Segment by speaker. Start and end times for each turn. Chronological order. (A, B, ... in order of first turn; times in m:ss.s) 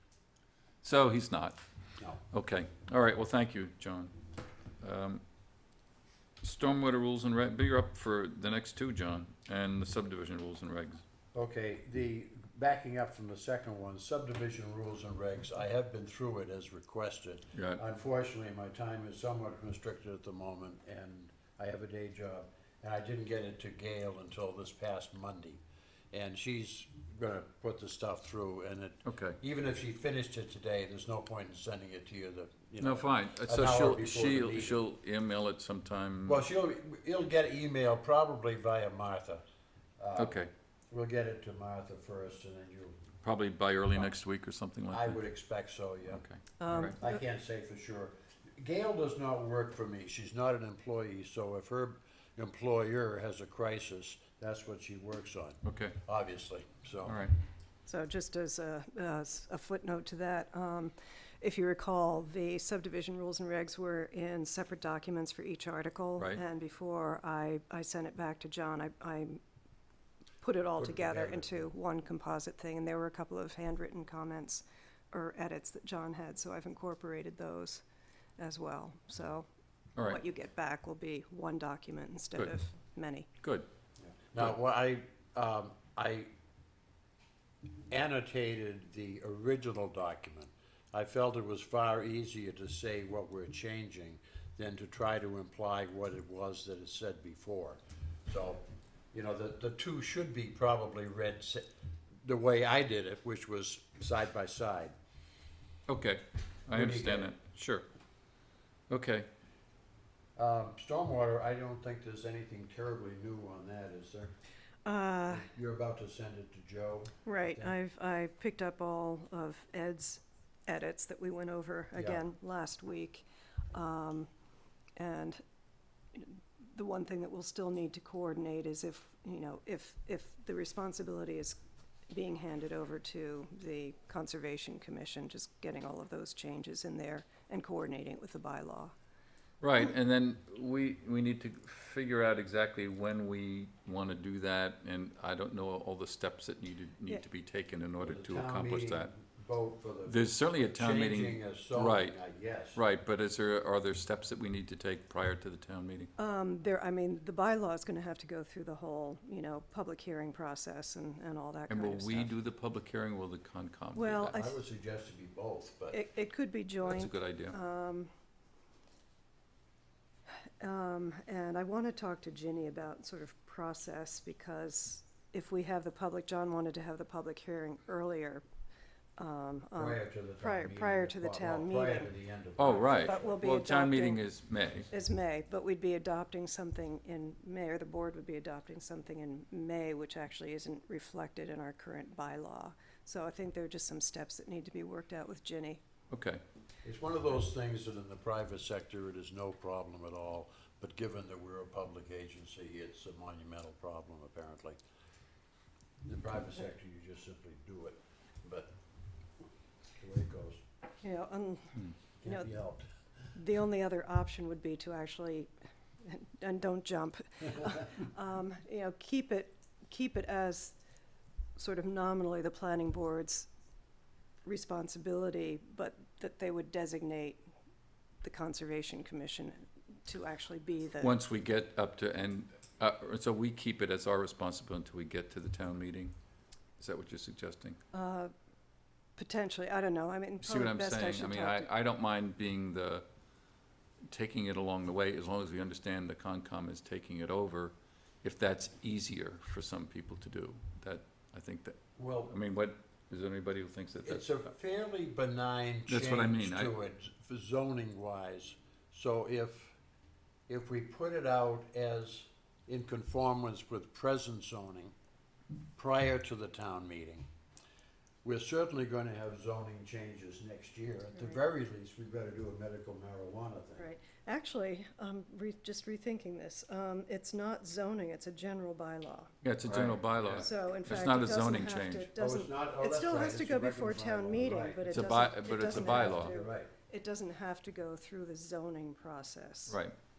0:00.8-0:01.6 A
0:02.3-0:04.2 A
0:04.8-0:05.2 A
0:06.4-0:11.0 A
0:11.3-0:25.6 B
0:17.6-0:17.8 A
0:26.1-0:34.8 B
0:29.1-0:29.4 A
0:32.8-0:36.4 A
0:36.2-0:39.4 B
0:40.0-0:43.0 B
0:40.2-0:40.5 A
0:43.2-0:45.2 A
0:44.9-0:57.2 B
0:46.1-0:47.0 A
0:46.6-0:47.0 C
0:55.6-0:56.0 A
0:57.0-0:57.4 A
0:57.9-1:09.4 C
1:10.4-1:17.8 C
1:10.8-1:11.7 B
1:18.4-1:19.5 C
1:20.0-1:23.3 C
1:24.3-1:26.3 B
1:27.9-1:38.6 B
1:39.1-1:41.7 B
1:42.2-1:44.9 B
1:45.9-1:47.8 A
1:46.7-1:47.3 B
1:48.9-1:49.3 A
1:50.4-1:54.3 B
1:54.8-1:55.5 C
1:55.3-1:57.8 B
1:57.2-2:04.3 C
2:02.0-2:02.2 B
2:05.0-2:05.4 C
2:06.2-2:11.6 C
2:12.1-2:18.9 C
2:19.6-2:29.1 A
2:28.0-2:32.8 B
2:30.1-2:32.2 A
2:32.7-2:36.1 A
2:36.2-2:42.3 C
2:41.7-2:44.4 A
2:44.0-2:44.5 C
2:44.3-2:46.0 B
2:45.9-2:48.1 C
2:46.8-2:47.6 A
2:50.6-2:58.4 C
2:59.2-3:02.1 C
2:59.8-3:03.3 B
3:02.6-3:04.9 A
3:02.9-3:04.2 C
3:04.9-3:15.8 C
3:16.1-3:16.4 A
3:16.8-3:24.8 B
3:26.0-3:28.7 B
3:30.0-3:30.6 B
3:31.0-3:32.5 C
3:32.2-3:32.9 B
3:33.3-3:40.8 C
3:41.6-3:43.5 C
3:44.4-3:47.4 C
3:48.2-3:51.2 C
3:51.0-3:56.1 A
3:56.8-3:57.8 A
3:57.9-3:58.3 C
3:59.2-4:01.7 C
4:00.4-4:03.0 A
4:04.1-4:14.3 A
4:12.0-4:12.3 B
4:14.0-4:19.8 B
4:15.9-4:16.7 A
4:20.5-4:24.9 B
4:25.8-4:27.3 B
4:28.2-4:33.9 B
4:33.8-4:39.3 C
4:39.4-4:42.1 A
4:39.7-4:40.4 B
4:40.2-4:49.8 C
4:42.2-4:45.0 B
4:44.9-4:46.4 A
4:45.6-4:46.7 B
4:49.7-4:49.9 A